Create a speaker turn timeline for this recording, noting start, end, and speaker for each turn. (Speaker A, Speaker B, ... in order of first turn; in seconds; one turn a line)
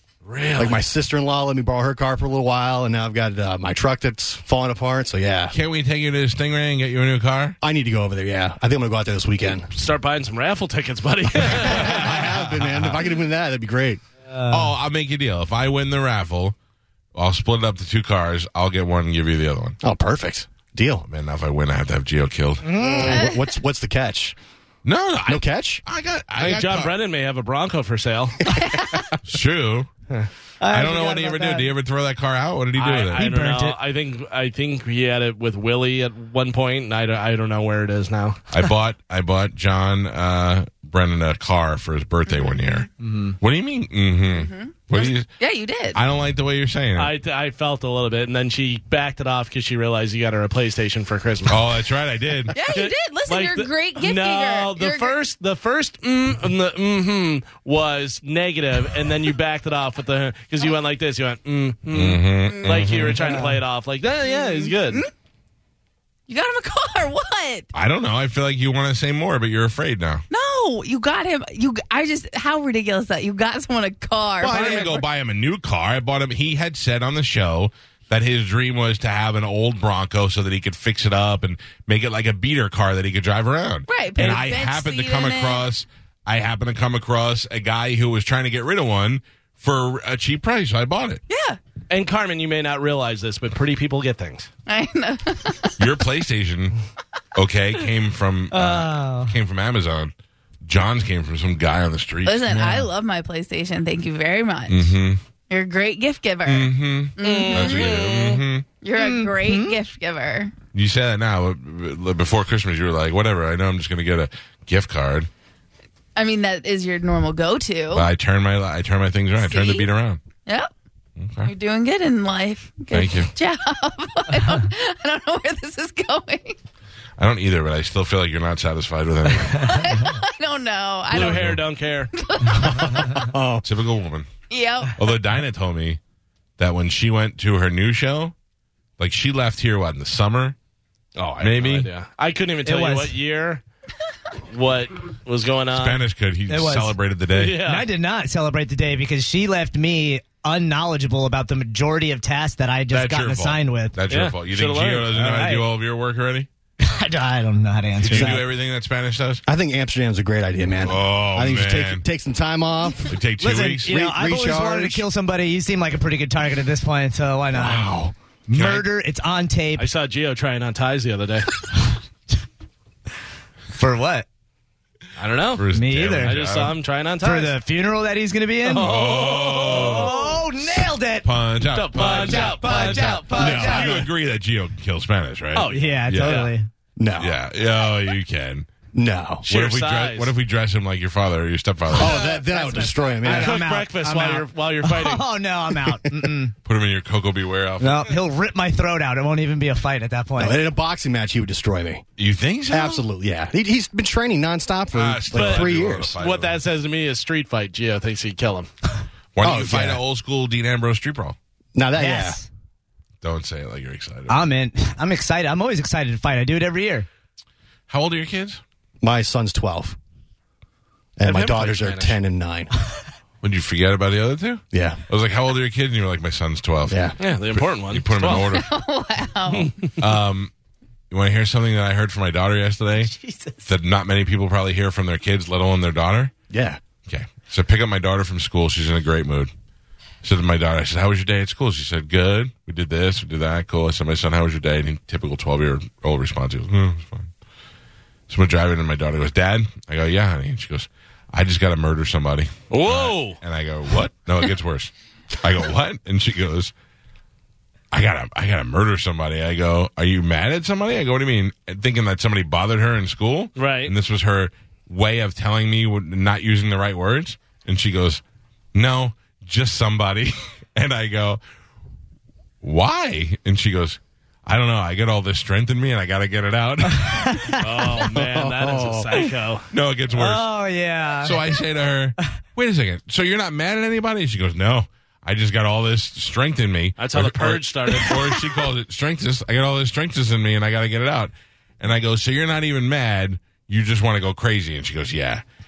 Speaker A: 0.2-0.8
Speaker B: 0.5-5.5
Speaker C: 5.5-7.6
Speaker B: 7.6-9.7
Speaker A: 9.7-12.3
Speaker B: 11.5-14.0
Speaker C: 11.7-12.1
Speaker C: 12.6-12.9
Speaker D: 14.3-14.7
Speaker C: 14.5-16.5
Speaker C: 17.1-19.8
Speaker B: 19.8-21.1
Speaker C: 21.1-22.8
Speaker D: 22.6-23.3
Speaker B: 22.8-24.4
Speaker C: 24.8-26.9
Speaker B: 25.3-25.8
Speaker A: 26.4-28.4
Speaker E: 28.5-29.1
Speaker C: 29.2-29.9
Speaker D: 30.6-31.7
Speaker C: 30.7-33.2
Speaker A: 32.8-38.4
Speaker D: 33.2-33.8
Speaker C: 38.5-42.9
Speaker E: 42.3-42.8
Speaker D: 43.0-43.4
Speaker C: 43.4-45.3
Speaker E: 44.3-46.0
Speaker C: 45.9-47.1
Speaker A: 46.9-51.7
Speaker C: 51.5-52.5
Speaker E: 52.5-55.2
Speaker A: 52.5-65.0
Speaker C: 61.9-63.2
Speaker E: 62.5-63.2
Speaker D: 63.2-63.5
Speaker E: 64.2-65.1
Speaker E: 66.3-67.7
Speaker C: 67.7-70.2
Speaker E: 70.3-75.0
Speaker C: 74.4-91.2
Speaker A: 74.5-74.9
Speaker E: 83.9-85.7
Speaker E: 91.3-91.6
Speaker A: 91.9-94.5
Speaker E: 94.7-95.8
Speaker C: 95.8-96.8
Speaker C: 97.3-100.1
Speaker D: 98.5-99.3
Speaker C: 100.6-102.5
Speaker E: 102.2-104.9
Speaker D: 102.5-102.9
Speaker C: 104.7-105.2
Speaker E: 105.5-110.5
Speaker C: 106.5-108.7
Speaker A: 107.2-108.4
Speaker D: 109.0-109.8
Speaker C: 110.7-115.3
Speaker E: 116.2-118.1
Speaker C: 117.9-120.2
Speaker E: 119.4-119.9
Speaker E: 120.4-120.7
Speaker C: 121.2-121.5
Speaker E: 121.4-126.5
Speaker C: 122.9-123.3
Speaker C: 127.2-130.0
Speaker E: 129.6-131.6
Speaker A: 131.1-132.1
Speaker C: 131.2-131.6
Speaker E: 132.1-133.2
Speaker B: 132.7-133.6
Speaker C: 133.6-134.3
Speaker E: 134.5-135.0
Speaker C: 135.0-136.0
Speaker C: 136.6-138.3
Speaker C: 139.0-140.5
Speaker A: 141.2-143.6
Speaker C: 141.4-141.9
Speaker D: 142.6-143.2
Speaker A: 144.5-146.0
Speaker C: 145.7-147.6
Speaker D: 146.5-147.0
Speaker A: 147.3-147.8
Speaker D: 147.6-153.9
Speaker C: 152.9-156.5
Speaker A: 154.1-155.1
Speaker D: 155.1-155.7
Speaker D: 156.8-158.4
Speaker C: 158.0-159.4
Speaker B: 158.1-158.5
Speaker B: 159.4-163.1
Speaker C: 160.8-162.0
Speaker C: 163.1-164.0
Speaker D: 163.4-167.9
Speaker B: 163.8-165.1
Speaker B: 167.5-168.1
Speaker D: 168.5-169.9
Speaker C: 168.5-168.9
Speaker A: 169.8-171.5
Speaker D: 173.7-174.2
Speaker A: 175.2-175.7
Speaker C: 175.6-176.7
Speaker D: 175.7-176.4
Speaker A: 176.2-177.5
Speaker D: 177.2-181.3
Speaker A: 178.6-180.4
Speaker C: 178.8-180.2
Speaker C: 181.2-186.5
Speaker A: 181.7-183.9
Speaker D: 182.0-184.0
Speaker B: 183.3-183.9
Speaker A: 185.5-186.5
Speaker D: 185.7-186.7
Speaker B: 187.0-187.4
Speaker C: 187.2-188.7
Speaker B: 188.9-189.5
Speaker A: 189.5-190.3
Speaker C: 189.5-192.2
Speaker B: 191.9-193.6
Speaker D: 192.0-196.5
Speaker A: 193.2-195.2
Speaker B: 195.9-196.3
Speaker C: 196.6-198.2
Speaker D: 197.8-200.6
Speaker B: 200.4-202.1
Speaker C: 202.2-203.0
Speaker B: 202.7-206.2
Speaker C: 204.9-206.6
Speaker A: 205.3-208.7
Speaker C: 209.3-211.3
Speaker B: 209.4-210.0
Speaker B: 211.7-212.4
Speaker D: 212.0-212.5
Speaker C: 213.2-214.4
Speaker D: 214.3-217.1
Speaker C: 217.9-218.6
Speaker B: 219.0-220.0
Speaker B: 221.2-222.7
Speaker A: 221.2-222.2
Speaker C: 223.4-228.7
Speaker B: 224.7-225.0
Speaker B: 226.9-227.1
Speaker A: 227.2-228.5
Speaker E: 228.3-229.7
Speaker A: 229.5-229.9
Speaker C: 230.0-230.5
Speaker C: 231.1-233.1
Speaker D: 233.2-233.5
Speaker C: 233.6-236.3
Speaker B: 236.5-236.8
Speaker C: 237.1-239.5
Speaker C: 240.2-247.3
Speaker C: 248.3-256.7
Speaker A: 252.7-253.4
Speaker C: 257.9-268.2
Speaker A: 263.6-263.9
Speaker C: 268.7-271.4
Speaker C: 272.6-277.5
Speaker D: 277.0-277.6
Speaker A: 277.6-279.7
Speaker B: 278.1-279.2
Speaker C: 279.7-280.5
Speaker D: 280.1-281.4
Speaker C: 281.2-295.4
Speaker A: 287.0-288.4